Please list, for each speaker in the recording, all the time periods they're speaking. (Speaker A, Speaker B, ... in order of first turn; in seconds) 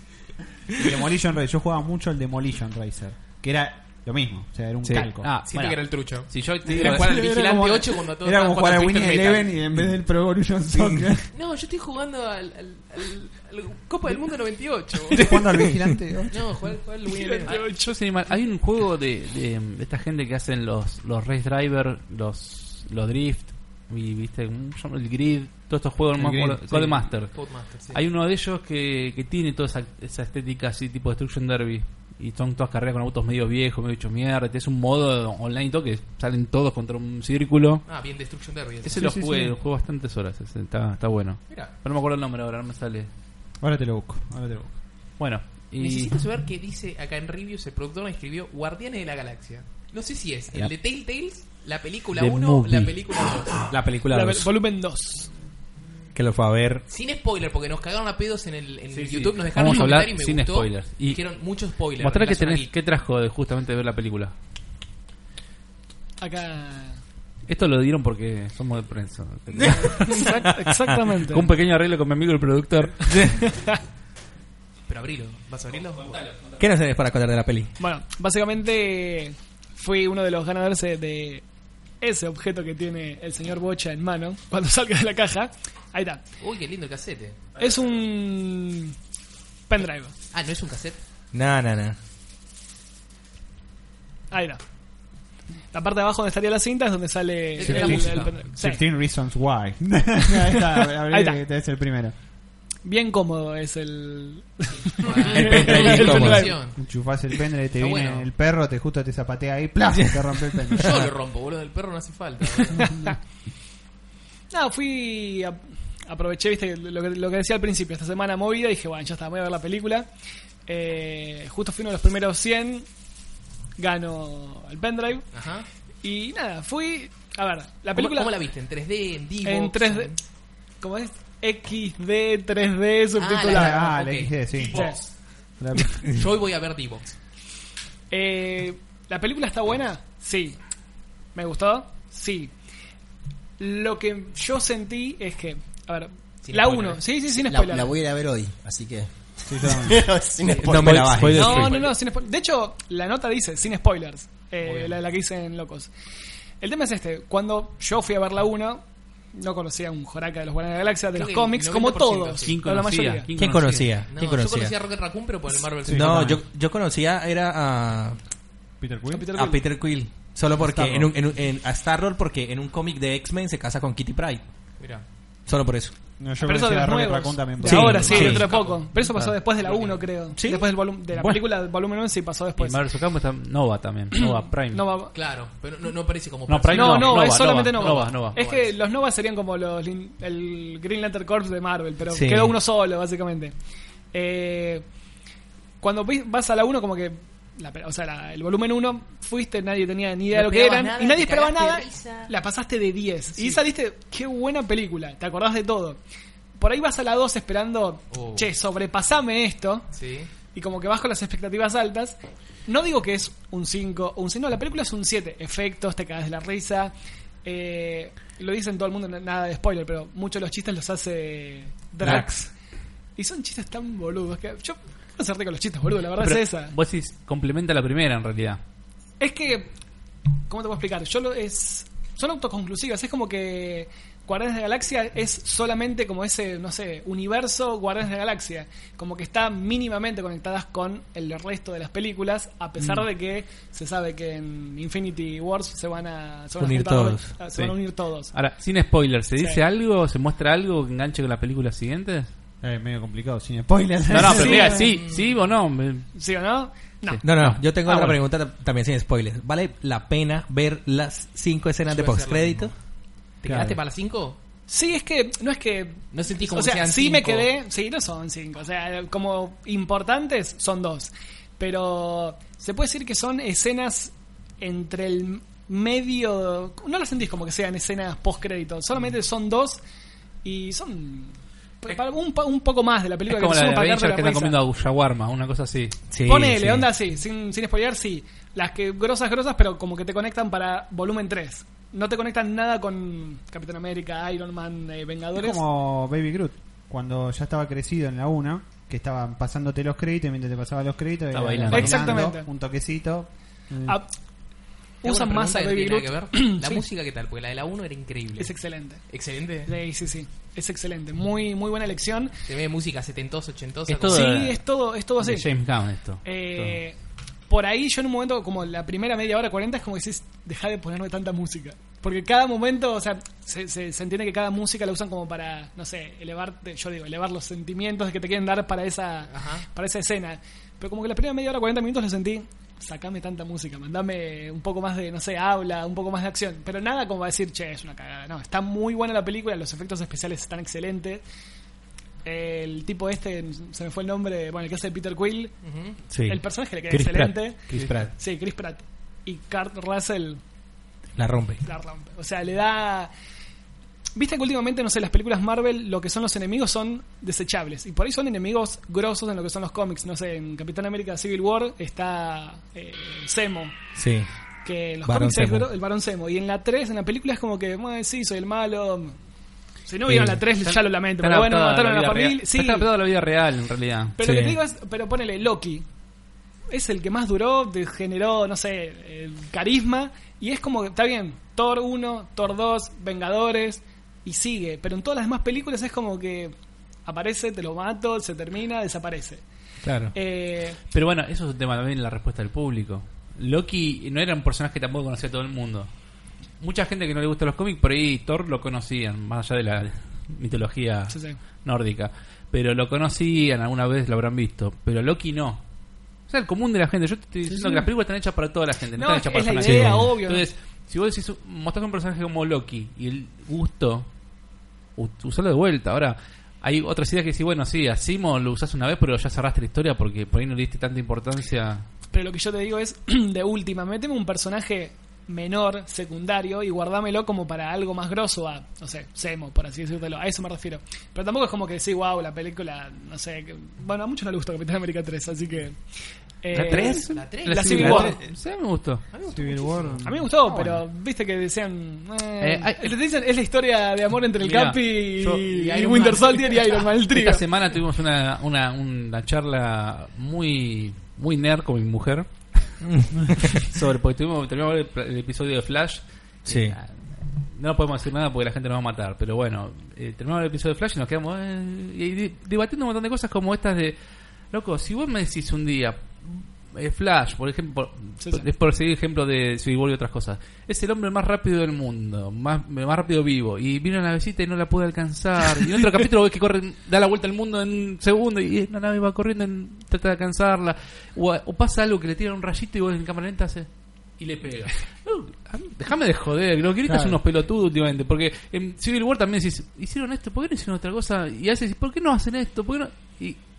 Speaker A: 0.7-5.3, 6.7-11.3, 15.1-16.8, 26.2-27.1, 39.0-39.6, 43.6-44.8, 97.6-102.2, 106.7-111.1, 133.5-134.9, 135.6-136.1, 149.5-150.1, 165.8-166.4, 168.8-169.3, 170.5-171.2, 176.2-178.4, 252.6-254.8, 263.5-263.8, 295.4-304.0, 439.2-440.8, 486.9-487.2
Speaker B: 4.8-5.1, 53.7-54.5, 56.1-56.9, 69.5-70.9, 76.6-77.7, 91.3-92.0, 105.3-106.5, 150.6-151.8, 163.3-164.7, 165.9-168.2, 169.3-174.4, 175.5-175.9, 177.6-178.5, 180.3-181.5, 192.1-192.6, 246.6-247.3, 257.2-262.7, 286.1-286.9, 346.1-348.1, 351.2-351.6, 364.0-364.3, 365.0-365.7, 370.1-370.4, 374.2-374.6, 389.8-390.1, 409.6-409.9, 436.5-437.3, 437.8-438.1, 456.5-456.8
Speaker C: 5.2-7.1, 17.6-37.9, 38.8-43.1, 45.2-46.1, 52.1-53.0, 58.9-61.2, 61.9-64.3, 67.5-70.2, 71.3-73.4, 162.4-164.0, 179.0-179.3, 182.6-184.9, 186.5-188.4, 226.2-228.6, 248.3-252.3, 254.1-256.1, 257.1-258.2, 283.3-286.1, 301.3-302.3, 313.9-314.6, 315.2-316.8, 370.6-374.2, 390.9-395.9, 396.6-405.6, 406.3-414.1, 415.0-421.9, 436.5-439.0, 442.4-443.0, 444.4-445.5, 447.1-452.8, 453.5-464.0, 464.5-493.4
Speaker D: 5.4-9.5, 11.3-15.3, 16.3-17.6, 27.3-28.0, 37.9-39.0, 45.8-53.7, 56.9-62.7, 74.9-76.3, 86.4-87.4, 90.3-91.0, 97.5-98.4, 105.0-106.8, 107.8-108.3, 110.8-112.9, 125.3-125.7, 127.9-130.2, 133.2-135.1, 135.9-137.2, 146.4-147.1, 150.4-151.9, 154.6-155.0, 161.1-162.6, 164.1-166.2, 174.8-175.1, 177.9-178.9, 179.6-180.1, 185.1-188.7, 200.3-202.3, 203.3-203.6, 208.1-208.5, 209.9-210.3, 254.6-255.3, 261.9-262.7, 263.4-264.4, 266.1-267.5, 305.0-308.6, 309.1-309.7, 312.5-314.3, 329.3-329.7, 345.6-346.0, 437.1-438.1, 439.1-440.0, 445.5-446.9
Speaker E: 17.1-17.9, 54.1-55.3, 66.2-67.0, 69.8-71.5, 73.2-73.8, 77.8-81.5, 82.0-86.2, 87.6-89.0, 89.7-90.1, 94.3-94.6, 95.7-98.8, 100.4-101.4, 102.8-106.7, 112.8-113.2, 114.5-120.1, 120.7-122.9, 123.8-125.3, 126.0-128.4, 129.4-130.1, 130.8-133.9, 134.7-135.0, 138.1-140.6, 141.3-142.5, 143.6-147.9, 151.3-155.9, 156.6-163.3, 169.1-169.6, 176.4-182.8, 184.1-185.1, 186.7-193.5, 194.1-194.8, 195.8-206.0, 206.6-209.9, 210.5-216.9, 217.4-222.5, 223.2-226.8, 229.2-229.7, 230.5-248.3, 249.4-249.6, 254.2-254.9, 256.1-257.2, 264.7-279.8, 280.4-284.6, 286.2-295.6, 301.7-302.5, 303.8-304.1, 305.0-306.8, 308.4-309.0, 309.7-312.3, 314.1-315.5, 316.2-317.0, 317.5-341.2, 342.2-345.5, 346.2-350.4, 351.6-353.1, 354.1-363.8, 364.6-369.1, 369.9-372.9, 374.2-375.9, 376.7-386.5, 387.1-389.4, 390.1-390.8, 401.1-401.4, 407.5-407.8, 408.9-410.5, 422.1-435.8, 436.4-438.2, 440.0-447.4, 468.2-468.5
Speaker F: 147.3-151.6